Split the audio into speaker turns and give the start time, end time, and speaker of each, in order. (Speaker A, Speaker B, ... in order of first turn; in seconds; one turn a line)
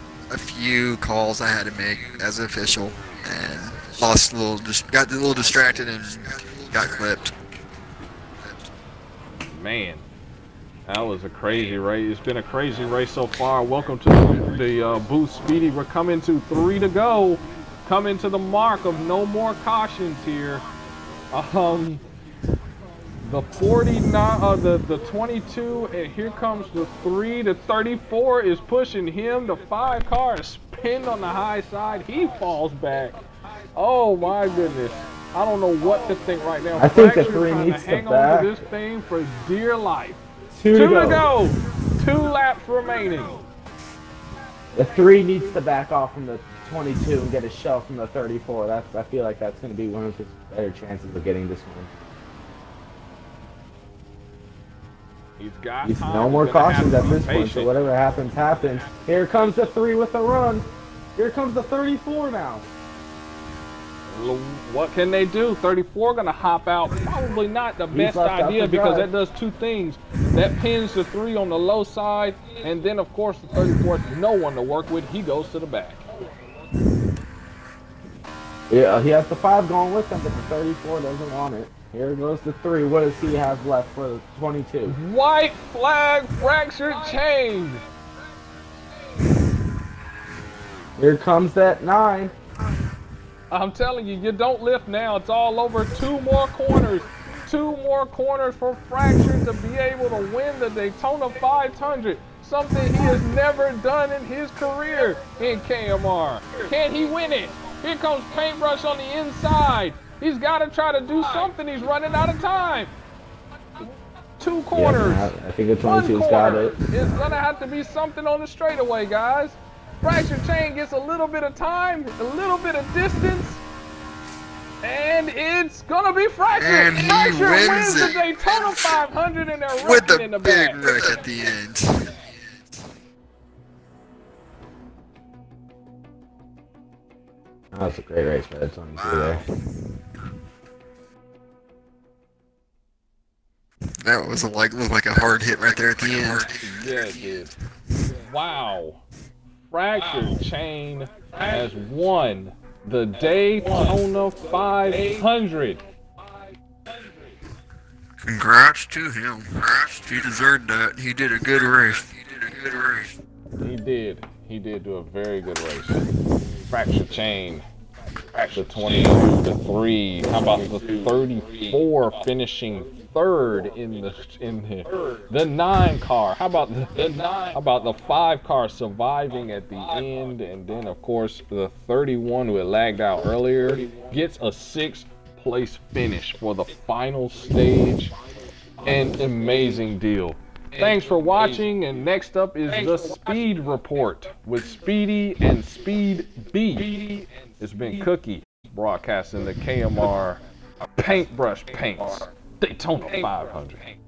Speaker A: 0.3-7.3
Speaker B: 9.5-10.0
Speaker B: 10.8-20.6
Speaker B: 21.3-22.0
Speaker B: 23.2-33.2
Speaker B: 33.8-43.4
Speaker C: 36.8-38.6
Speaker C: 40.5-41.3
Speaker C: 44.7-51.9
Speaker B: 55.4-57.7
Speaker C: 55.8-62.7
Speaker B: 64.1-76.1
Speaker C: 67.9-69.1
Speaker C: 78.7-85.0
Speaker B: 84.8-87.8
Speaker C: 91.0-92.3
Speaker B: 93.5-112.9
Speaker B: 114.4-123.6
Speaker C: 114.7-116.8
Speaker B: 124.8-130.8
Speaker A: 126.5-129.0
Speaker A: 129.8-132.1
Speaker C: 137.7-139.4
Speaker A: 144.0-146.5
Speaker B: 146.5-147.5
Speaker B: 148.1-149.0
Speaker B: 149.6-155.8
Speaker A: 158.2-163.1
Speaker B: 163.6-166.0
Speaker B: 166.7-167.6
Speaker B: 168.3-188.1
Speaker B: 188.8-200.4
Speaker B: 201.0-203.8